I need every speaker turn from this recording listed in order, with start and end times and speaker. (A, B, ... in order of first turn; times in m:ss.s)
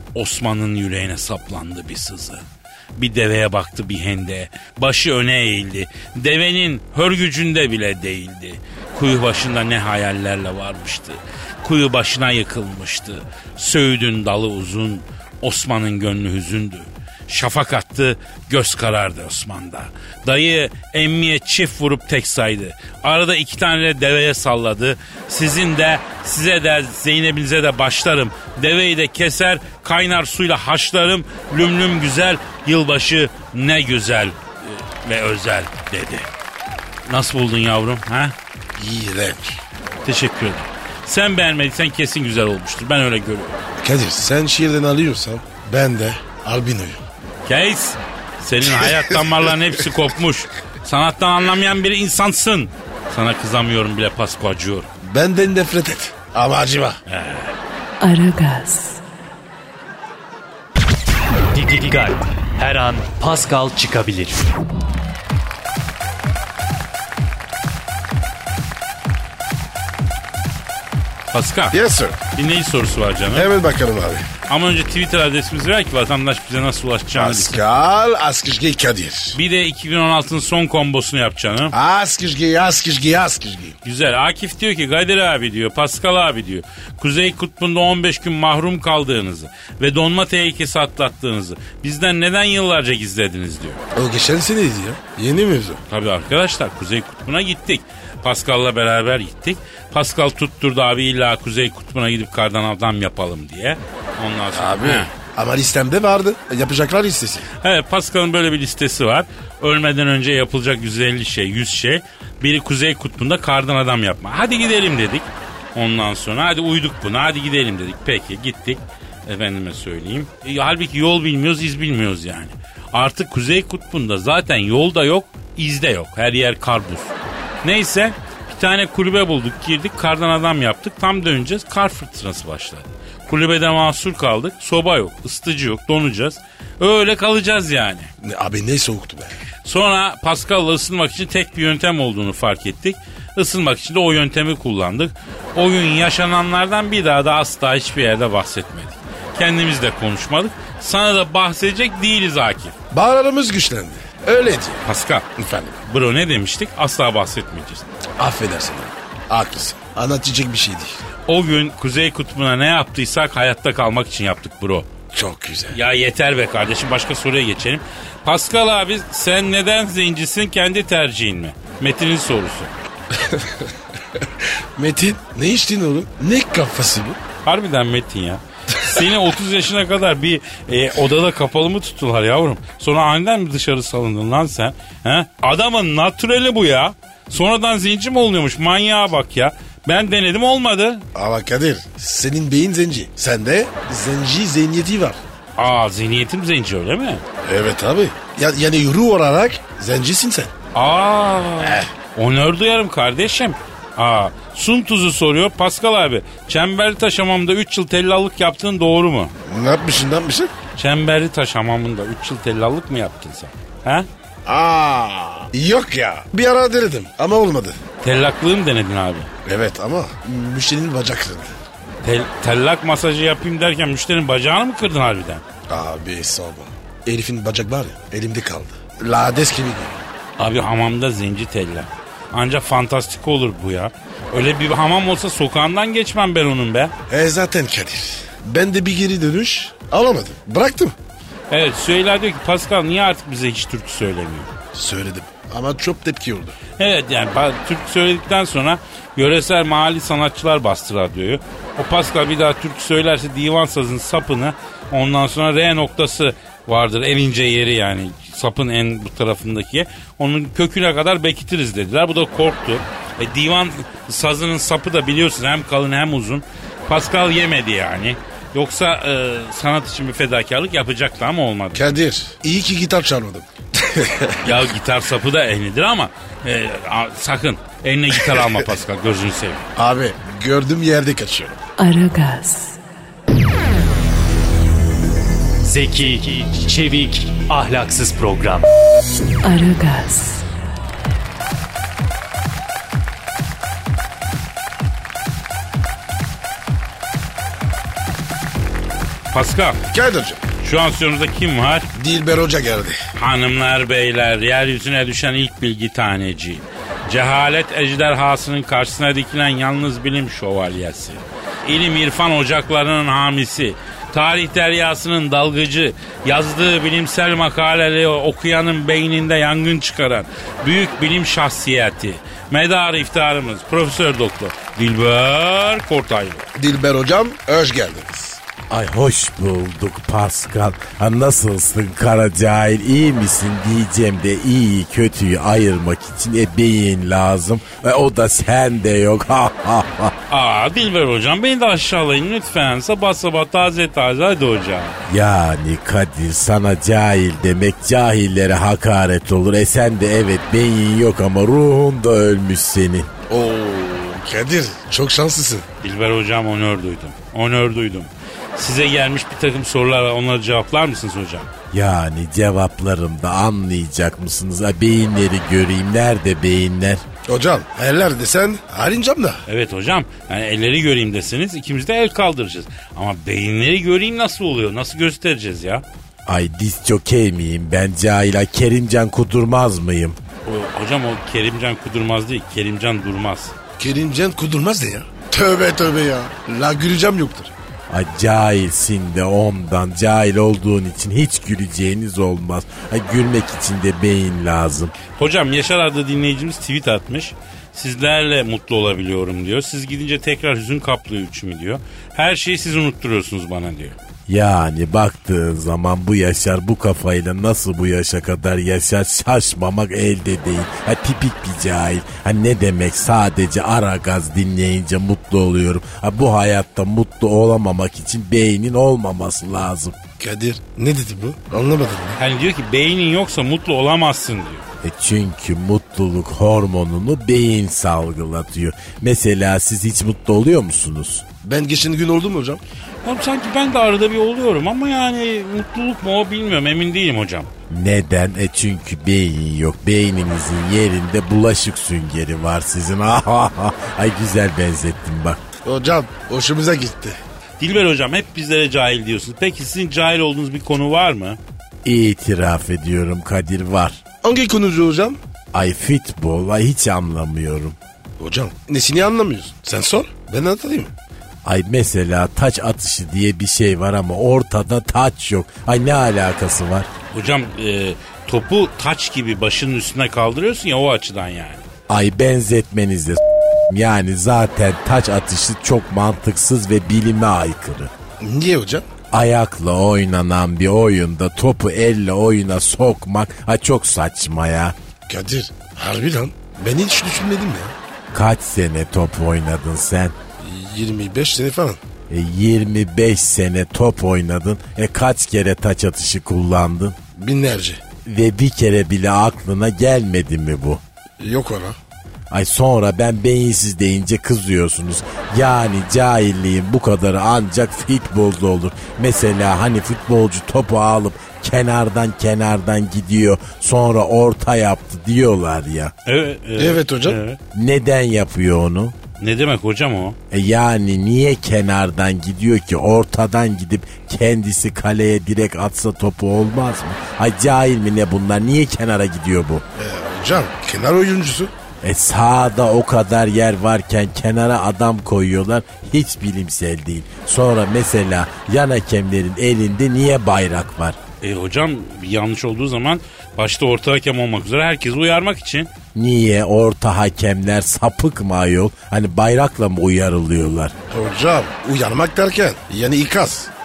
0:00.2-0:02.4 A
0:03.0-0:36.3 A
0:37.1-0:38.3 A
0:38.8-0:39.6 B
0:40.0-0:43.6 A
0:43.8-0:47.0 B
0:47.5-0:54.9 A
0:48.8-0:49.4 B
0:55.0-0:57.0 B
0:57.1-0:57.5 A
0:58.0-0:59.0 C
1:01.5-1:04.5 D
1:11.3-1:11.8 A
1:11.7-1:12.2 B
1:12.4-1:13.5 A
1:13.3-1:14.3 B
1:14.5-1:17.6 A
1:17.2-1:19.4 B
1:19.3-1:21.7 A
1:21.7-1:23.8 B
1:23.8-1:33.8 A
1:34.0-1:35.8 B
1:35.9-1:45.1 A
1:44.5-1:47.5 B
1:47.6-2:18.1 A
2:18.2-2:19.4 B
2:19.6-2:32.7 A
2:32.9-2:34.8 B
2:34.8-2:35.3 A
2:35.4-2:35.8 B
2:35.9-2:37.8 A
2:38.2-2:41.0 B
2:41.3-2:44.9 A
2:45.1-2:45.8 B
2:45.7-2:52.7 A
2:53.1-2:53.6 B
2:54.8-2:57.2 B
2:57.4-3:11.0 A
3:11.2-3:15.2 B
3:15.6-3:17.2 A
3:17.4-3:20.5 B
3:20.7-3:29.3 A
3:21.6-3:21.9 B
3:29.5-3:30.5 B
3:30.8-3:34.1 A
3:34.5-3:37.8 B
3:38.0-3:39.3 A
3:39.4-3:41.5 B
3:42.0-3:45.4 A
3:45.7-3:50.0 B
3:50.4-3:56.9 A
3:57.1-4:01.0 B
4:01.5-4:04.5 A
4:04.7-4:06.6 B
4:06.8-4:31.8 A
4:31.7-4:34.5 B
4:34.4-4:39.7 A
4:38.3-4:38.6 B
4:39.8-4:41.6 B
4:41.8-4:42.8 C
4:45.6-4:48.6 D
4:49.4-4:50.5 C
4:59.3-4:59.8 A
4:59.9-5:00.4 B
5:00.6-5:01.9 A
5:02.0-5:03.0 B
5:03.2-5:26.5 A
5:26.6-5:28.4 B
5:28.7-5:40.1 E
5:40.3-5:45.0 A
5:45.1-5:53.1 E
5:53.3-5:55.7 B
5:55.8-6:01.5 A
6:01.7-6:07.0 E
6:07.3-6:09.4 B
6:09.5-6:15.8 A
6:16.3-6:20.2 E
6:20.4-6:23.5 A
6:23.8-6:27.5 B
6:27.9-6:34.9 E
6:35.2-6:44.0 A
6:44.3-7:00.0 E
7:00.2-7:02.2 B
7:02.2-7:04.6 A
7:04.8-7:11.2 E
7:11.4-7:12.6 B
7:13.0-7:17.5 A
7:17.7-7:25.4 E
7:25.6-7:27.2 B
7:27.6-7:31.4 A
7:31.8-7:34.0 E
7:34.2-7:35.2 B
7:35.5-7:37.8 E
7:38.2-7:40.9 B
7:41.4-7:46.9 E
7:47.1-7:51.6 A
7:51.9-7:57.9 E
7:58.2-7:58.9 B
7:59.1-8:04.8 E
8:05.1-8:07.7 B
8:08.1-8:10.2 E
8:10.4-8:11.8 B
8:12.1-8:17.0 E
8:17.2-8:17.8 B
8:18.1-8:20.8 E
8:21.2-8:21.8 B
8:22.3-8:35.9 E
8:36.1-8:37.4 A
8:36.6-8:37.2 B
8:37.5-8:39.0 E
8:39.2-8:40.2 A
8:40.3-8:49.6 E
8:49.8-8:51.5 B
8:51.8-9:01.0 E
9:01.2-9:05.7 A
9:06.0-9:10.7 E
9:10.9-9:13.5 B